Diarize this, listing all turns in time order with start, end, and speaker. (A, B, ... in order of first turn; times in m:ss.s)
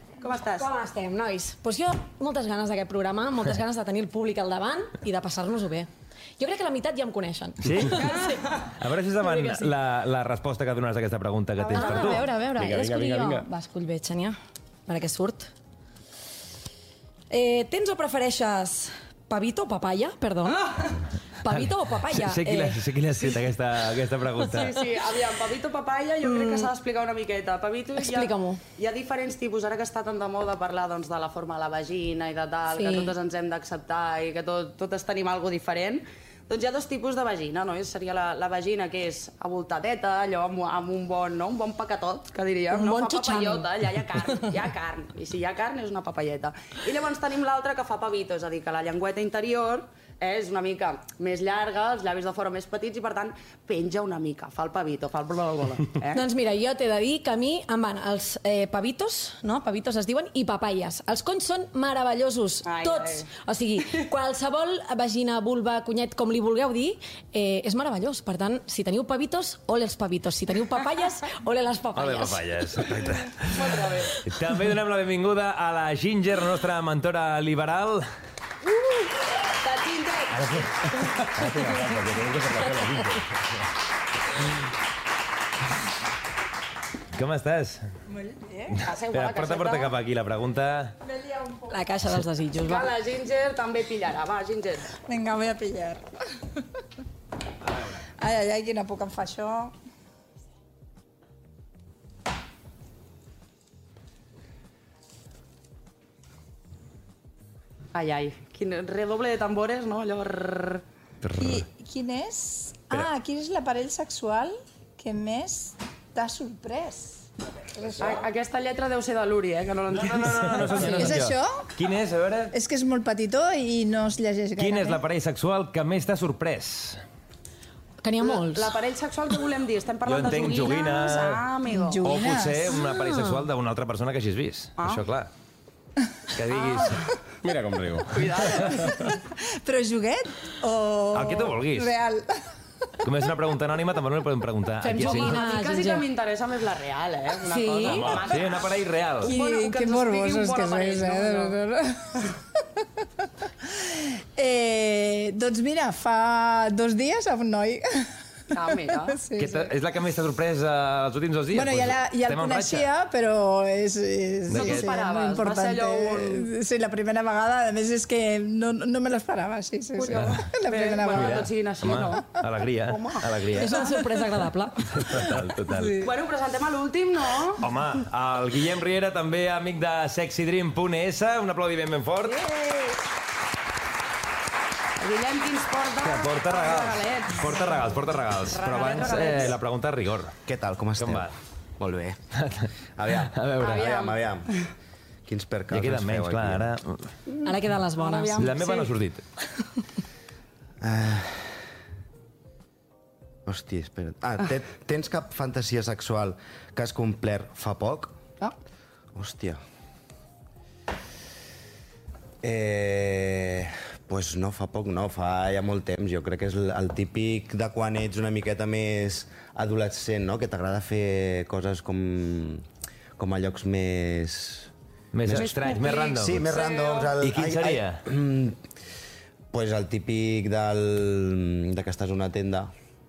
0:00.2-0:00.7 A
0:00.6-0:08.6 B
0:07.6-0:12.3 C
0:07.9-0:08.6 A
0:09.2-0:09.7 B
0:11.6-0:12.2 A
0:11.7-0:14.4 B
0:12.4-0:13.5 D
0:14.9-0:15.5 B
0:17.3-0:20.8 B
0:21.4-0:22.8 B
0:21.5-0:24.9 C
0:24.5-0:56.3 A
0:26.2-0:26.7 B
0:28.0-0:28.6 B
0:32.8-0:33.1 B
0:42.7-0:43.7 B
0:56.1-1:12.9 B
1:02.6-1:03.3 A
1:12.0-1:18.1 C
1:18.7-1:20.4 A
1:21.0-1:23.2 D
1:27.1-1:27.8 C
1:28.2-1:28.7 E
1:28.8-1:30.9 C
1:28.8-1:29.9 A
1:31.1-1:31.7 E
1:31.7-1:32.9 B
1:32.6-1:34.9 A
1:35.1-1:36.0 E
1:38.2-1:39.7 E
1:47.9-1:50.8 A
1:51.2-1:51.6 C
1:51.4-1:58.2 E
1:58.0-2:01.0 A
2:00.1-2:02.5 C
2:00.4-2:01.2 D
2:00.6-2:01.7 E
2:02.5-2:05.0 E
2:04.6-2:07.0 C
2:08.0-2:08.7 B
2:08.2-2:12.2 A
2:10.0-2:11.5 C
2:11.7-2:13.0 E
2:12.0-2:15.3 C
2:14.8-2:15.0 A
2:16.3-2:17.0 C
2:16.5-2:16.9 A
2:17.4-2:18.9 D
2:18.1-2:19.1 A
2:18.9-2:22.3 E
2:21.1-2:22.0 C
2:23.0-2:25.5 C
2:24.8-2:26.0 B
2:25.0-2:31.6 A
2:27.5-2:28.1 B
2:27.9-2:28.2 D
2:28.1-2:29.3 C
2:29.2-2:32.4 E
2:33.8-2:38.1 E
2:38.5-2:39.2 A
2:38.6-2:39.7 E
2:39.3-2:42.9 C
2:41.5-2:51.5 E
2:44.5-2:44.9 C
2:44.5-2:46.5 A
2:50.0-2:52.3 A
2:51.1-2:53.9 C
2:52.9-2:53.3 A
2:53.5-2:54.9 B
2:54.9-2:56.1 C
2:56.0-2:57.6 A
2:57.6-3:02.5 C
3:02.3-3:03.0 A
3:05.0-3:07.8 A
3:06.0-3:10.4 C
3:08.5-3:09.6 A
3:10.5-3:12.2 F
3:11.0-3:11.3 C
3:12.4-3:13.8 C
3:13.0-3:14.5 F
3:13.6-3:14.2 A
3:15.3-3:16.7 F
3:15.7-3:17.1 C
3:17.4-3:18.9 A
3:17.4-3:18.5 B
3:18.4-3:19.2 C
3:20.8-3:21.6 F
3:23.5-3:28.2 F
3:29.1-3:29.6 F
3:32.4-3:42.6 F
3:43.2-3:44.7 F
3:45.1-3:46.5 C
3:45.2-3:48.6 F
3:45.3-3:47.1 A
3:47.2-3:48.0 C
3:49.5-3:52.7 F